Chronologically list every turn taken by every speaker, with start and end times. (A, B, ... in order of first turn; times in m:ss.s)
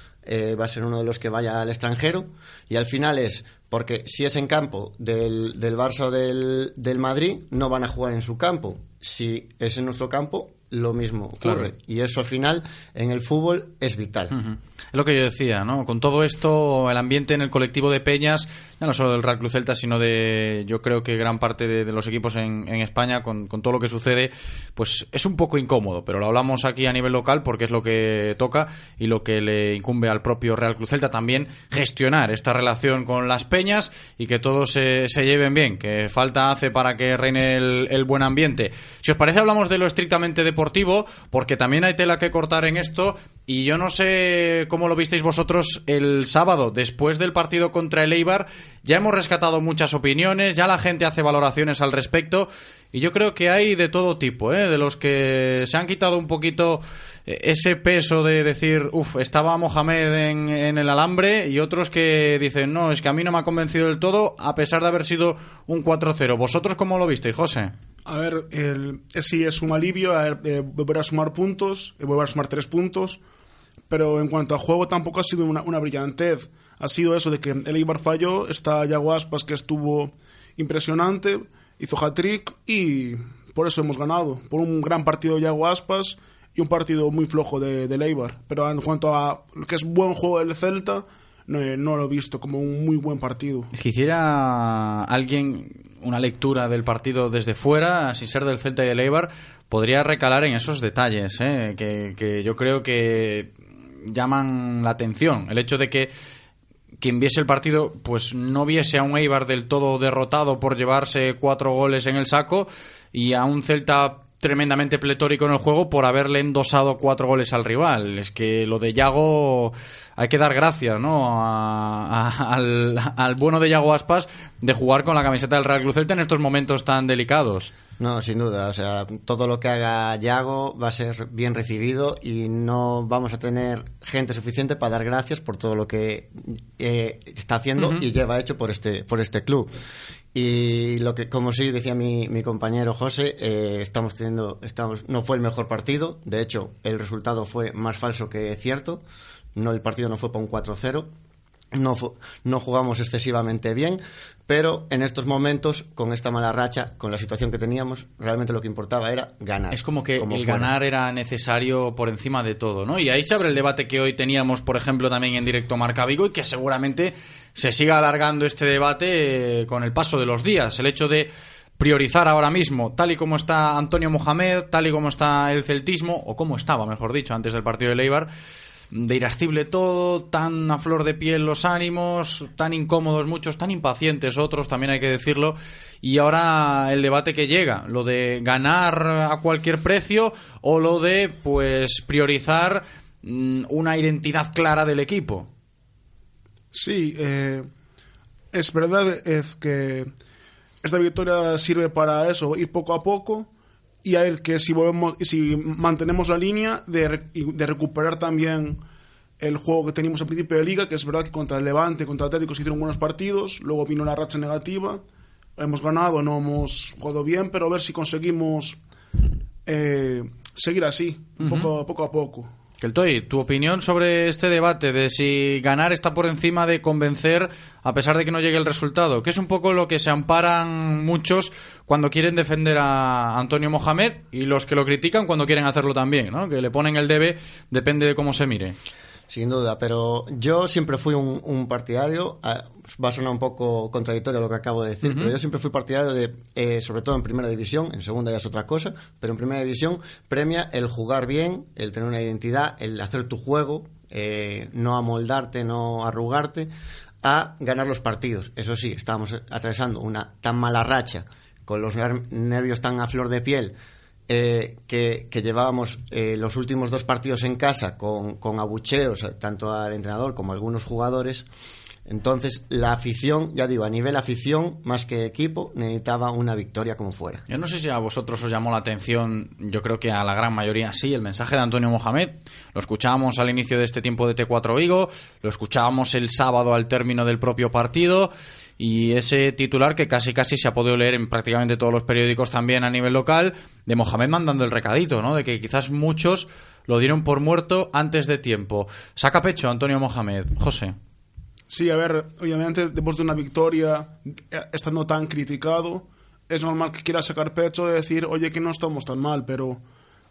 0:00.2-0:14.4 A
0:11.4-0:11.7 B
0:14.3-1:07.7 B
1:08.1-1:13.2 C
1:13.9-1:33.7 C
1:33.7-1:43.5 B
1:44.1-1:46.1 B
1:47.0-2:07.7 B
2:08.0-2:19.7 A
2:20.3-2:29.0 A
2:29.6-2:31.1 A
2:31.7-2:40.7 A
2:39.7-2:58.3 B
2:58.9-3:15.5 B
3:16.7-3:17.7 C
3:18.5-3:20.1 C
3:20.8-3:23.5 C
3:24.0-3:28.8 C
3:29.4-3:35.0 C
3:35.6-3:38.8 C
3:39.7-3:42.5 C
3:41.4-3:41.7 B
3:42.8-3:58.8 B
3:59.3-4:16.7 A
4:05.0-4:05.3 B
4:17.2-4:23.8 A
4:24.3-4:31.5 A
4:32.1-4:37.4 A
4:37.5-5:01.0 B
5:01.7-5:09.8 C